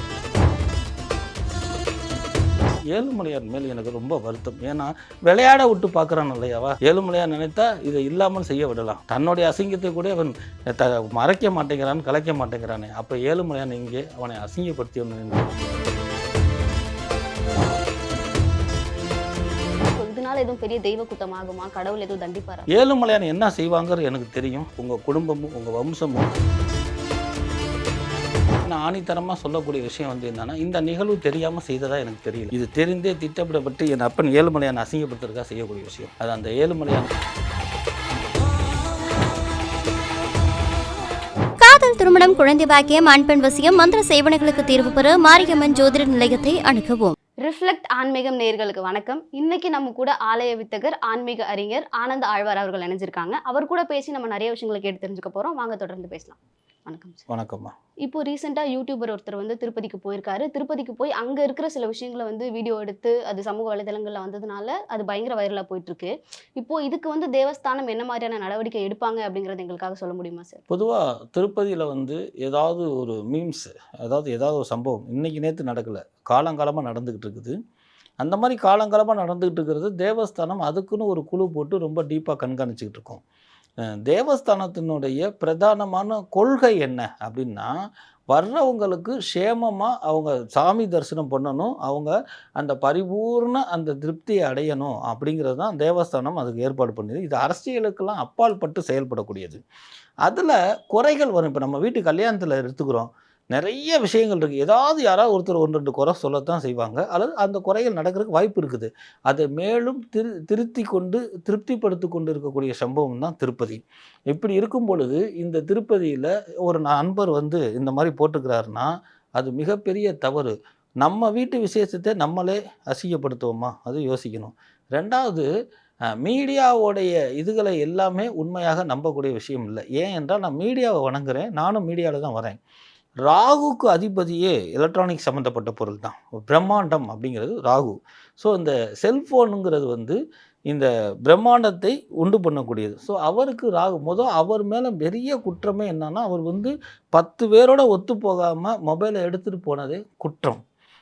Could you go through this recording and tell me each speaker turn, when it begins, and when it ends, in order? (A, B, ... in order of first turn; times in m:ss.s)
0:02.9-0:15.7 A
0:19.9-0:22.7 B
0:22.7-0:26.3 A
0:28.6-0:37.1 A
0:41.6-0:47.1 C
0:47.4-0:57.2 B
0:57.3-0:57.7 A
0:58.0-1:10.6 B
1:10.7-1:17.5 A
1:18.2-1:23.2 A
1:24.0-1:27.7 A
1:28.3-1:39.6 A
1:40.2-2:05.4 A
2:06.2-2:12.6 A
2:13.2-2:30.6 A